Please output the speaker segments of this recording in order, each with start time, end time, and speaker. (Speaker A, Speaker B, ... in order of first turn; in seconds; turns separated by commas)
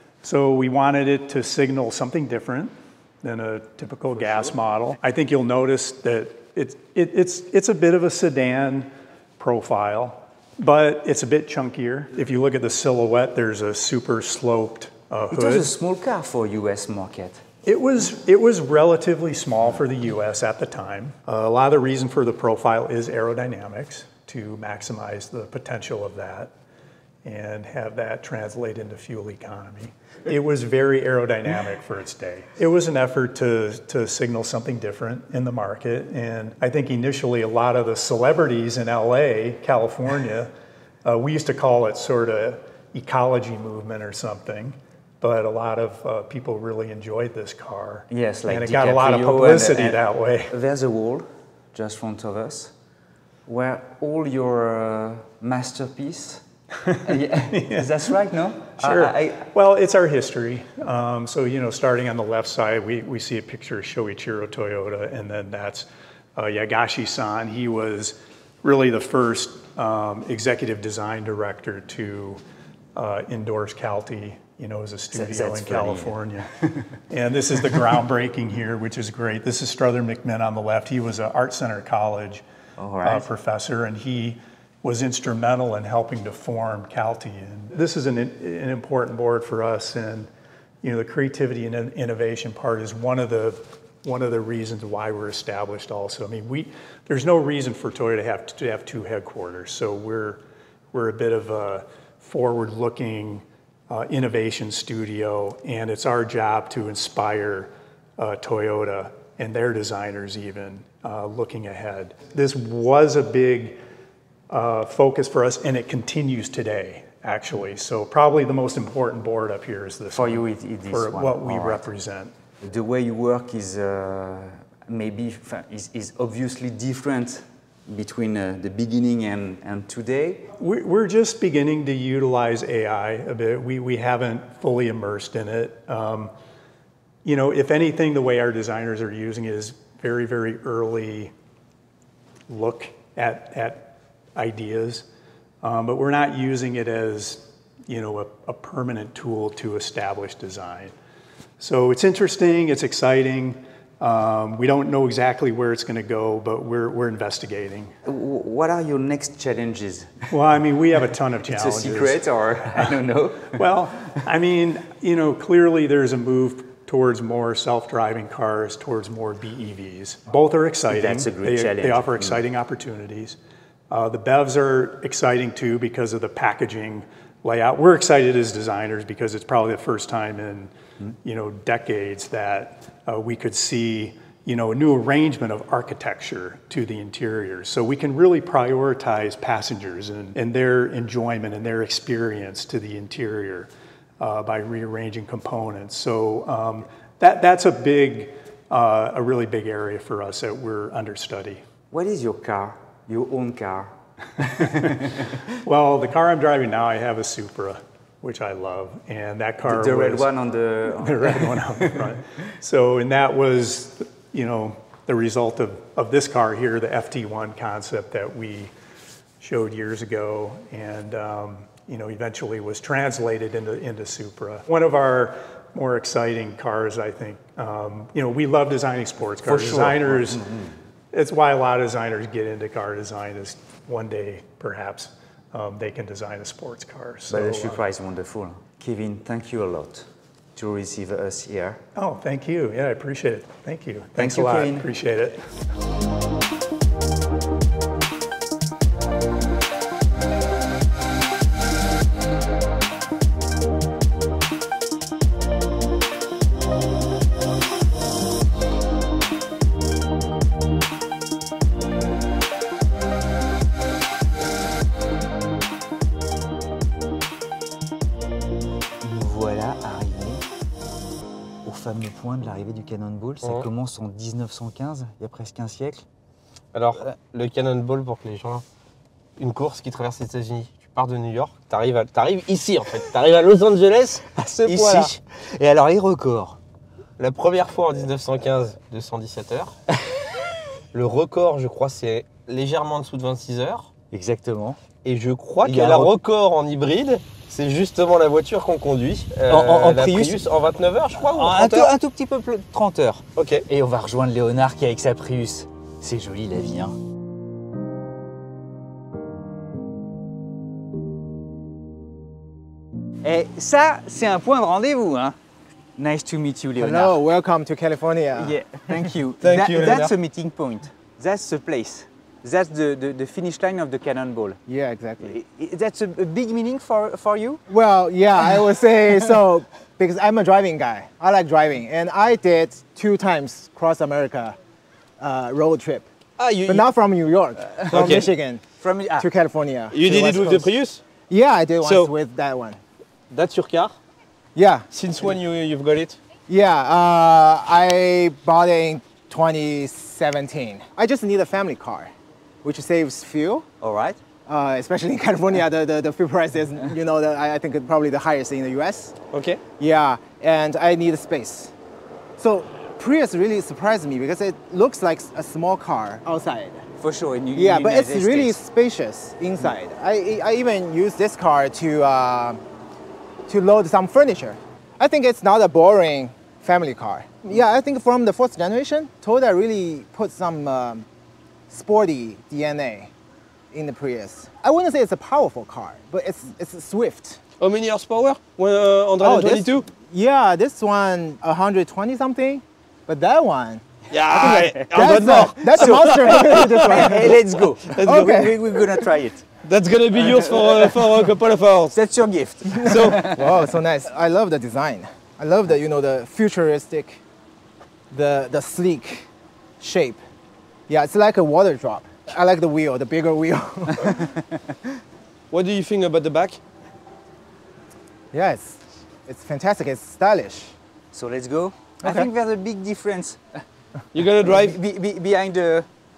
Speaker A: 0.2-15.7, Speaker B: 15.3-17.4, Speaker A: 17.6-26.5, Speaker A: 27.2-40.5, Speaker A: 41.0-50.5, Speaker B: 48.1-52.7, Speaker B: 53.5-56.4, Speaker B: 57.0-59.5, Speaker A: 57.5-58.0, Speaker A: 58.8-72.4, Speaker A: 72.9-82.4, Speaker B: 75.1-76.2, Speaker B: 82.8-83.3, Speaker A: 83.0-90.3, Speaker A: 90.8-100.4, Speaker A: 100.9-113.8, Speaker A: 114.5-122.3, Speaker B: 120.1-121.8, Speaker B: 122.6-130.5, Speaker A: 130.6-136.3, Speaker A: 137.2-141.3, Speaker A: 142.5-145.1, Speaker A: 145.6-150.9, Speaker A: 151.6-157.9, Speaker B: 158.0-160.3, Speaker A: 160.3-173.4, Speaker B: 161.5-164.2, Speaker B: 170.9-172.4, Speaker A: 173.9-180.7, Speaker A: 181.2-201.6, Speaker B: 201.9-205.4, Speaker A: 204.4-210.3, Speaker B: 209.6-212.2, Speaker A: 210.9-218.7, Speaker A: 219.4-230.4, Speaker B: 229.4-230.8, Speaker A: 231.1-237.8, Speaker B: 237.3-241.8, Speaker A: 241.9-245.5, Speaker B: 244.2-244.9, Speaker B: 269.0-270.4, Speaker B: 271.6-276.0, Speaker C: 276.7-278.6, Speaker C: 279.4-285.1, Speaker B: 284.6-286.6, Speaker C: 287.2-289.8, Speaker C: 290.9-293.9, Speaker B: 294.1-294.8, Speaker C: 295.0-301.9, Speaker B: 295.6-296.1, Speaker B: 299.5-300.4, Speaker B: 301.2-307.0, Speaker C: 303.4-303.6, Speaker B: 313.2-315.4, Speaker B: 316.0-317.2, Speaker D: 316.8-318.6, Speaker B: 318.4-324.6, Speaker C: 319.4-320.1, Speaker D: 324.7-325.4, Speaker B: 325.2-327.6, Speaker D: 327.7-334.6, Speaker D: 335.2-336.1, Speaker C: 336.4-336.9, Speaker D: 336.7-338.6, Speaker B: 337.8-338.3, Speaker C: 337.9-338.2, Speaker B: 338.8-339.3, Speaker D: 339.2-340.7, Speaker C: 339.9-341.0, Speaker D: 341.3-342.8, Speaker C: 341.8-342.1, Speaker C: 343.3-343.9, Speaker D: 344.5-344.9, Speaker C: 344.9-346.2, Speaker D: 346.5-353.7, Speaker B: 353.8-354.2, Speaker D: 354.5-359.1, Speaker C: 359.3-359.6, Speaker D: 359.8-361.7, Speaker D: 362.4-366.8, Speaker B: 367.0-368.6, Speaker D: 367.5-372.6, Speaker D: 373.5-381.1, Speaker D: 381.7-383.1, Speaker D: 383.7-387.4, Speaker C: 387.6-389.8, Speaker D: 389.2-397.4, Speaker C: 394.1-397.3, Speaker B: 395.9-399.4, Speaker C: 397.9-398.4, Speaker D: 398.0-398.6, Speaker C: 399.6-401.9, Speaker B: 400.2-401.3, Speaker B: 401.9-403.6, Speaker D: 402.7-407.2, Speaker C: 402.8-403.3, Speaker D: 408.1-409.3, Speaker D: 409.8-410.2, Speaker D: 410.9-414.3, Speaker C: 415.5-416.6, Speaker D: 418.3-420.8, Speaker B: 421.1-423.6, Speaker D: 422.0-422.3, Speaker C: 424.1-424.8, Speaker B: 424.4-425.9